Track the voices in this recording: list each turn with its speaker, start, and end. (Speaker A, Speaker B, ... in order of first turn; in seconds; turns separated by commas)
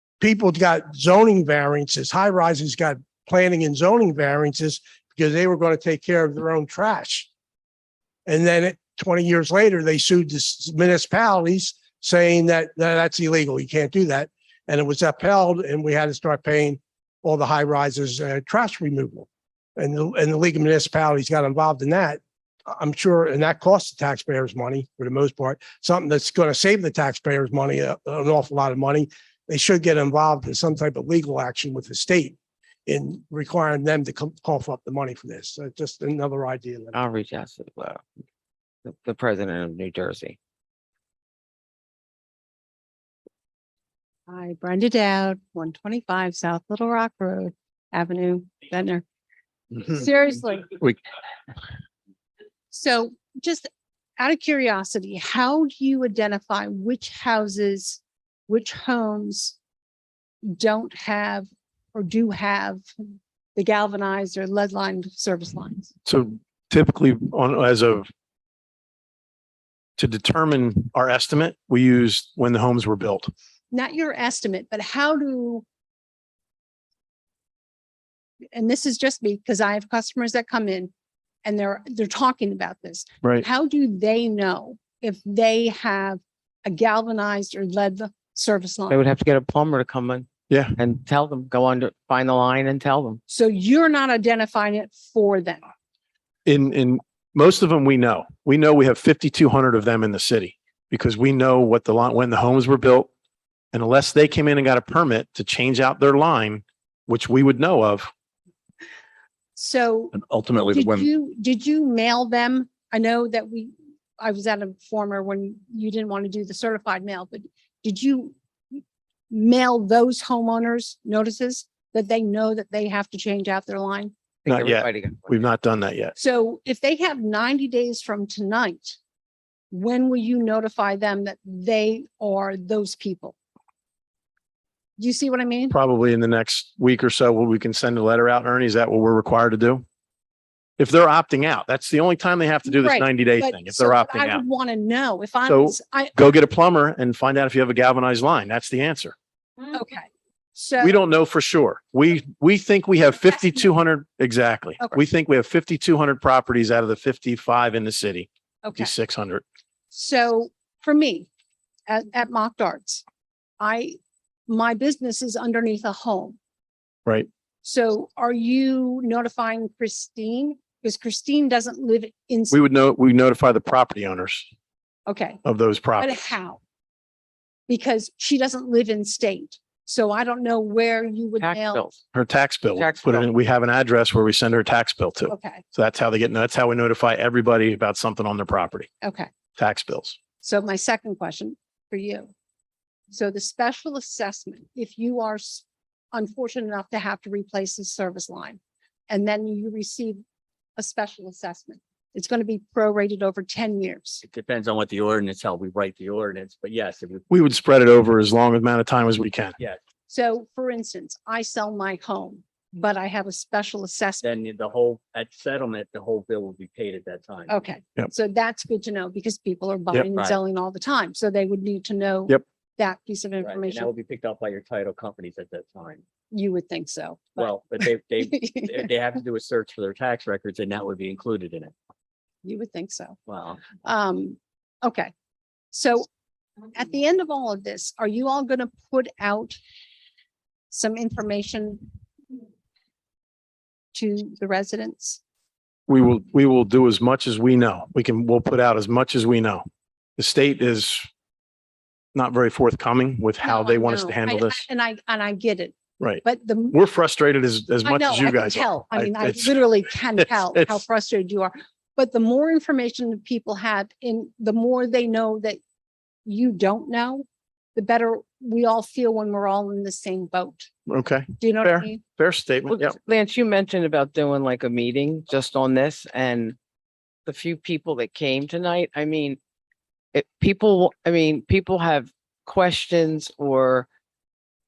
Speaker A: 0.2-7.3, Speaker A: 8.3-32.4, Speaker A: 32.9-37.0, Speaker B: 36.9-38.0, Speaker B: 38.8-40.4, Speaker C: 44.3-49.0, Speaker C: 49.8-50.7, Speaker C: 52.7-59.5, Speaker C: 60.4-62.9, Speaker C: 63.5-65.9, Speaker D: 66.0-68.1, Speaker D: 70.0-73.3, Speaker C: 73.7-75.6, Speaker C: 78.5-80.9, Speaker C: 81.4-89.0, Speaker B: 88.9-93.2, Speaker D: 90.5-90.8, Speaker C: 93.3-95.6, Speaker D: 96.5-103.1, Speaker D: 103.7-108.1, Speaker C: 109.5-124.1, Speaker E: 110.3-111.0, Speaker B: 124.5-125.4, Speaker D: 124.5-126.1, Speaker C: 126.2-129.0, Speaker C: 129.7-133.3, Speaker C: 135.0-135.8, Speaker D: 135.7-139.8, Speaker D: 140.8-144.4, Speaker C: 142.7-146.1, Speaker D: 145.5-149.2, Speaker C: 149.7-151.0, Speaker D: 150.8-159.4, Speaker C: 158.6-158.9, Speaker C: 159.9-161.3, Speaker C: 161.9-163.1, Speaker C: 163.6-164.0, Speaker C: 164.5-166.4, Speaker C: 167.6-172.6, Speaker D: 172.5-174.5, Speaker C: 175.1-175.4, Speaker D: 175.4-176.1, Speaker C: 176.0-176.6, Speaker C: 177.7-181.8, Speaker B: 181.4-182.0, Speaker D: 182.1-188.9, Speaker B: 182.8-183.3, Speaker C: 185.3-185.6, Speaker C: 189.0-189.3, Speaker D: 189.6-190.2, Speaker C: 190.4-192.3, Speaker C: 193.1-200.2, Speaker C: 200.8-204.2, Speaker E: 204.2-207.2, Speaker D: 207.3-209.6, Speaker C: 210.1-214.2, Speaker E: 214.2-217.6, Speaker C: 217.5-223.9, Speaker E: 223.4-226.0, Speaker C: 226.3-228.8, Speaker E: 227.4-231.7, Speaker C: 232.4-235.1, Speaker E: 233.3-233.8, Speaker C: 235.7-236.1, Speaker C: 236.7-239.6, Speaker C: 240.7-241.9, Speaker C: 243.9-245.2, Speaker D: 245.9-249.7, Speaker D: 250.2-251.1, Speaker D: 252.1-254.7, Speaker C: 253.4-256.8, Speaker D: 256.0-260.8, Speaker C: 257.8-265.6, Speaker C: 266.2-270.7, Speaker D: 270.9-272.9, Speaker C: 271.4-272.0, Speaker B: 272.7-276.6, Speaker B: 277.2-279.4, Speaker B: 280.1-283.9